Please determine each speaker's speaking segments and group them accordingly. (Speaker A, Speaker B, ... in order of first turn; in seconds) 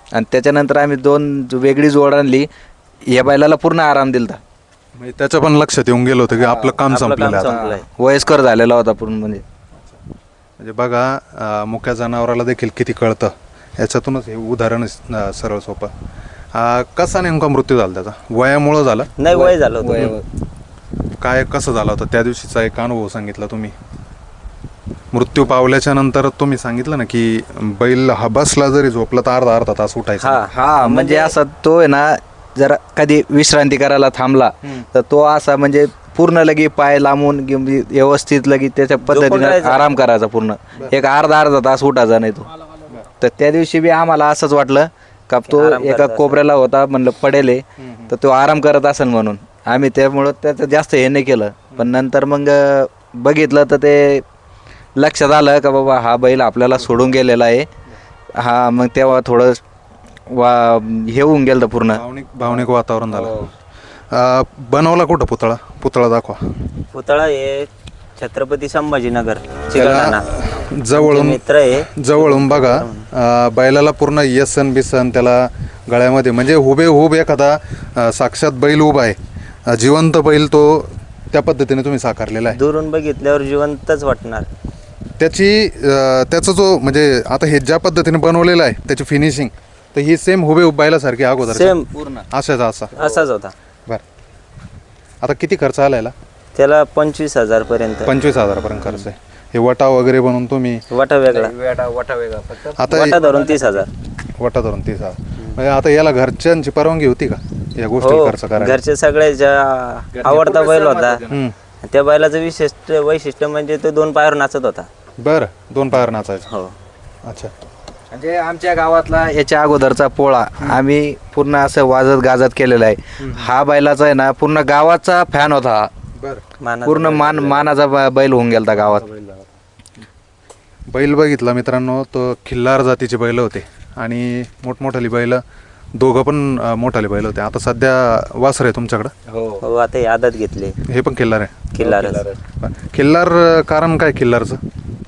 Speaker A: 0.1-2.5, 3.1-4.4, 6.3-9.4, 19.3-20.2, 30.5-42.5, 43.2-54.2, 55.0-57.7, 58.4-59.6, 60.3-63.5, 91.9-92.2, 92.9-93.2, 101.2-103.9, 110.1-111.4, 118.1-125.9, 126.8-129.1, 139.3-139.6, 141.8-142.4
Speaker B: 5.0-7.6, 10.6-15.9, 16.5-19.1, 21.2-23.8, 25.1-30.4, 47.8-48.1, 61.9-63.4, 64.1-66.4, 69.7-79.2, 79.7-82.6, 85.2-91.8, 92.3-92.9, 95.2-96.1, 98.1-100.8, 102.8-103.2, 104.4-108.8, 111.3-111.5, 115.2-116.5, 117.2-117.5, 123.2-123.5, 126.2-126.4, 129.0-129.4, 130.9-135.4, 136.0-139.1, 140.9-141.6, 142.6-144.6
Speaker C: 6.9-7.9, 19.2-20.1, 30.2-31.4, 39.0-39.9, 45.5-46.4, 66.9-73.1, 82.5-84.5, 91.4-91.9, 93.0-93.5, 96.6-98.1, 100.9-101.5, 102.9-103.9, 108.0-111.2, 111.8-114.9, 116.5-116.8, 126.6-127.7, 139.6-140.8, 141.7-142.2